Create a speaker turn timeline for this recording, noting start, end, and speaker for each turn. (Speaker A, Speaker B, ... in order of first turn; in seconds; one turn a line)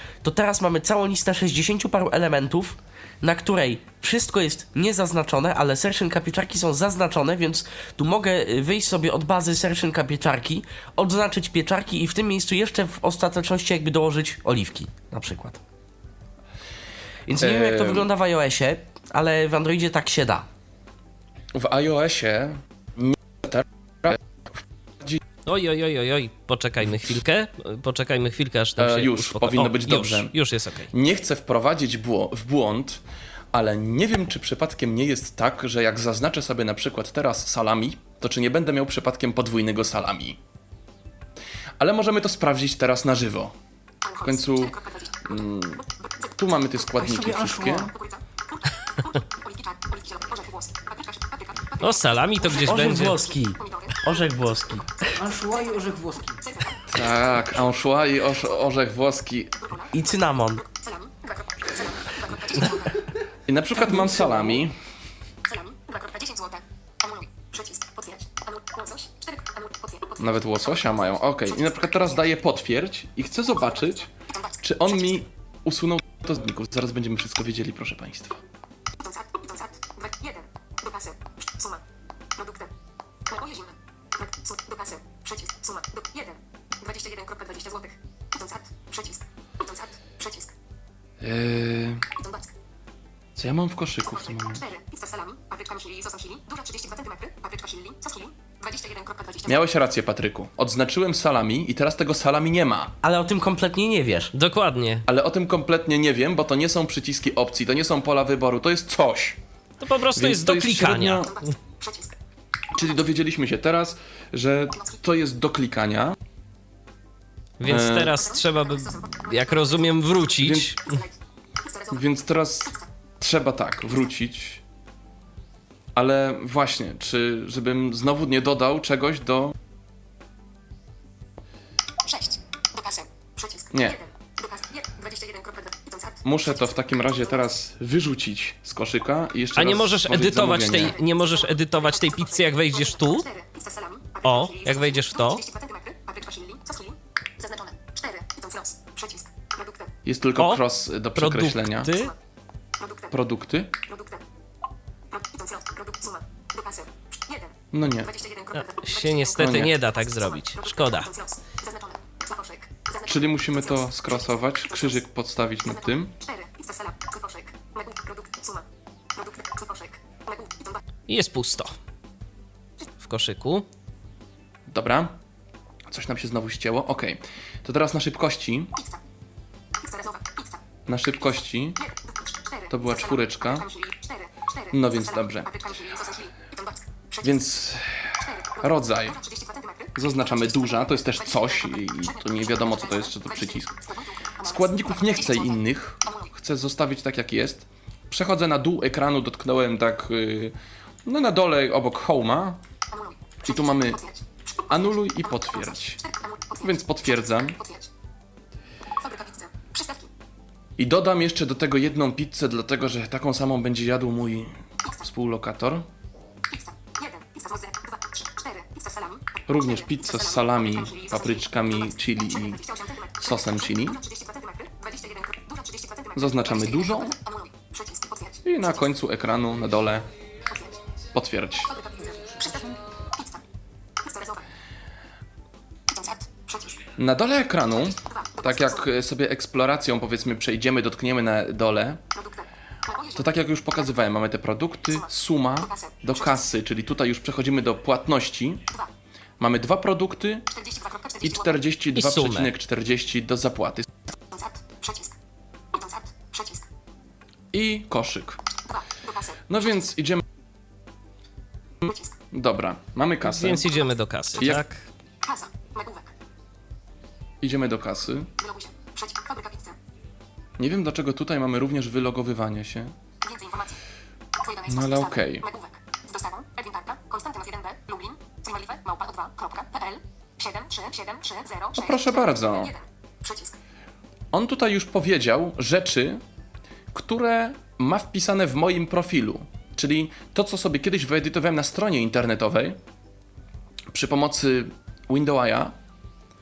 Speaker A: 0.2-15.6
Speaker A: 17.2-20.5
Speaker B: 17.4-18.1
Speaker B: 21.5-24.2
Speaker C: 25.4-30.9
Speaker B: 28.8-30.3
Speaker B: 30.9-33.0
Speaker B: 33.5-40.4
Speaker B: 41.8-43.5
Speaker D: 44.0-47.1
Speaker B: 44.2-45.8
Speaker B: 46.4-47.9
Speaker E: 47.0-47.9
Speaker D: 47.8-54.6
Speaker C: 51.8-53.2
Speaker A: 52.4-55.2
Speaker E: 55.1-56.4
Speaker D: 55.4-55.8
Speaker D: 56.4-56.9
Speaker B: 56.9-59.5
Speaker D: 59.6-59.9
Speaker A: 59.9-60.6
Speaker D: 60.6-63.0
Speaker B: 63.5-64.8
Speaker E: 63.8-64.6
Speaker D: 65.4-72.2
Speaker B: 70.2-74.1
Speaker D: 73.6-75.2
Speaker B: 74.6-78.3
Speaker D: 79.0-81.8
Speaker D: 82.3-82.7
Speaker D: 83.3-90.5
Speaker B: 91.2-92.0
Speaker D: 92.1-92.5
Speaker B: 93.3-94.6
Speaker D: 94.0-99.6
Speaker B: 99.4-102.9
Speaker A: 103.0-104.3
Speaker C: 104.3-105.0
Speaker B: 105.0-109.4
Speaker C: 109.8-111.3
Speaker B: 110.1-111.3
Speaker D: 111.2-112.1
Speaker B: 112.7-116.2
Speaker C: 117.6-121.0
Speaker B: 117.6-118.1
Speaker D: 118.1-122.1
Speaker B: 120.4-120.7
Speaker B: 121.9-124.6
Speaker B: 125.9-129.5
Speaker D: 132.0-136.7
Speaker B: 133.7-134.0
Speaker B: 136.2-140.9
Speaker C: 139.5-143.3
Speaker D: 140.8-149.9
Speaker C: 144.2-145.4
Speaker B: 150.0-151.9
Speaker C: 151.2-152.1
Speaker D: 151.8-152.1
Speaker D: 152.8-153.2
Speaker B: 153.1-153.7
Speaker D: 153.8-154.2
Speaker D: 155.1-165.1
Speaker B: 157.7-158.1
Speaker C: 158.5-161.1
Speaker B: 159.4-159.7
Speaker B: 163.1-166.1
Speaker D: 165.6-170.8
Speaker C: 171.1-171.7
Speaker C: 173.0-173.7
Speaker B: 174.7-175.1
Speaker B: 175.9-178.7
Speaker D: 178.7-179.0
Speaker D: 179.8-180.6
Speaker B: 180.9-181.8
Speaker D: 181.2-187.5
Speaker B: 182.7-183.7
Speaker B: 184.7-185.5
Speaker B: 187.2-189.2
Speaker D: 188.2-196.3
Speaker B: 189.9-193.7
Speaker B: 194.4-202.6
Speaker D: 202.9-207.9
Speaker B: 203.4-204.0
Speaker B: 204.7-206.0
Speaker B: 206.6-207.6
Speaker D: 209.0-210.1
Speaker B: 210.8-215.9
Speaker D: 214.8-215.1
Speaker D: 216.5-228.9
Speaker B: 219.5-222.6
Speaker B: 223.2-224.0
Speaker B: 226.1-227.1
Speaker B: 228.4-230.1
Speaker D: 230.5-230.8
Speaker B: 231.1-231.7
Speaker D: 231.6-233.4
Speaker D: 234.0-234.4
Speaker D: 235.9-236.9
Speaker B: 236.9-242.0
Speaker D: 237.9-238.9
Speaker D: 242.1-243.9
Speaker B: 243.2-248.6
Speaker D: 244.8-246.5
Speaker B: 249.4-250.5
Speaker D: 250.5-251.6
Speaker B: 251.2-253.8
Speaker C: 251.9-252.5
Speaker D: 254.3-255.1
Speaker D: 255.7-256.6
Speaker B: 257.5-258.4
Speaker D: 258.7-259.4
Speaker B: 259.5-260.2
Speaker D: 261.9-262.2
Speaker B: 262.3-263.7
Speaker C: 263.2-264.8
Speaker D: 265.2-266.1
Speaker B: 267.4-268.3
Speaker D: 268.4-269.8
Speaker B: 270.6-272.9
Speaker D: 273.2-273.8
Speaker D: 274.3-283.5
Speaker B: 274.7-275.4
Speaker B: 281.7-282.7
Speaker B: 284.3-286.2
Speaker B: 286.9-292.8
Speaker B: 293.9-295.7